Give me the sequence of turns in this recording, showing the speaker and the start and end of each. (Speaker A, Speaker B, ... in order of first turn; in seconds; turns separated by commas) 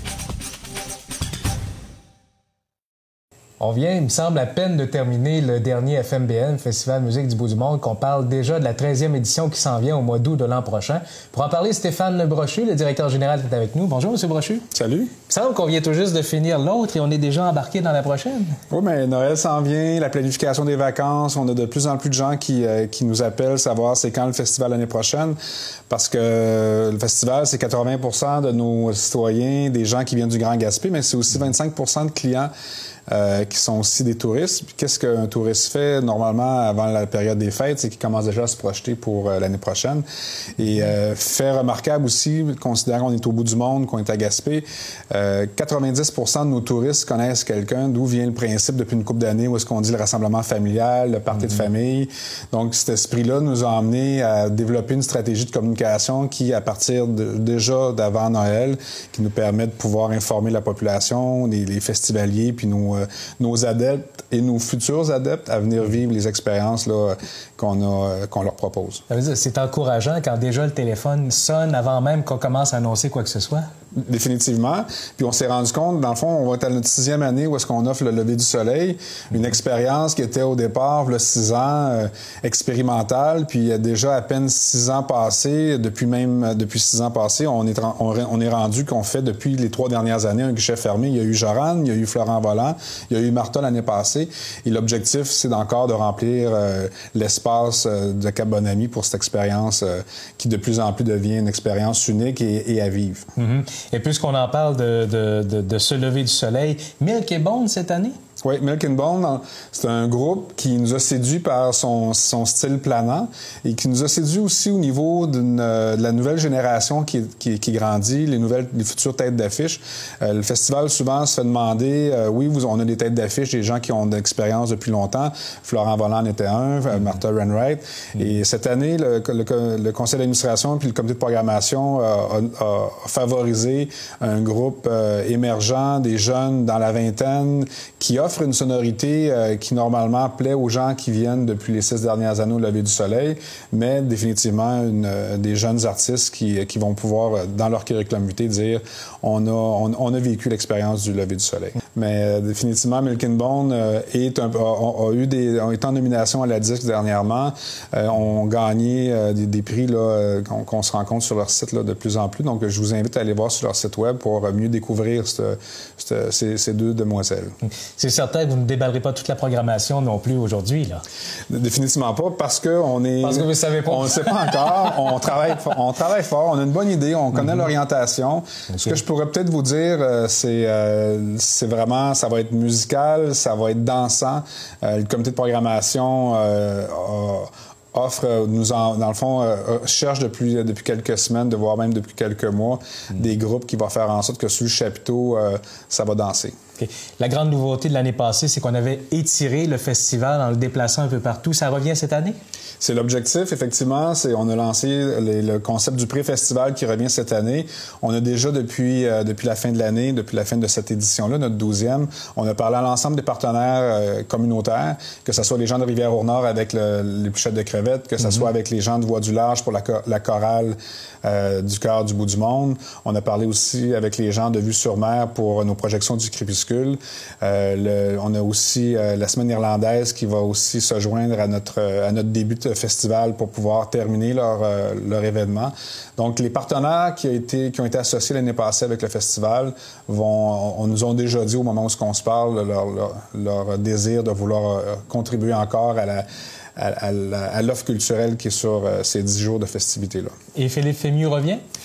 Speaker A: 3.6-14.7, Speaker B: 14.7-15.2, Speaker A: 15.2-18.6, Speaker B: 18.7-25.4, Speaker B: 25.9-32.5, Speaker B: 33.1-40.0, Speaker B: 40.6-69.0, Speaker A: 69.1-73.7, Speaker B: 74.0-103.3, Speaker A: 103.4-108.2, Speaker B: 108.4-167.5, Speaker A: 167.9-171.0, Speaker B: 171.5-196.6, Speaker A: 173.2-175.0, Speaker A: 178.7-179.0, Speaker A: 196.8-202.4, Speaker B: 202.8-246.3, Speaker B: 246.8-250.3, Speaker A: 250.5-251.6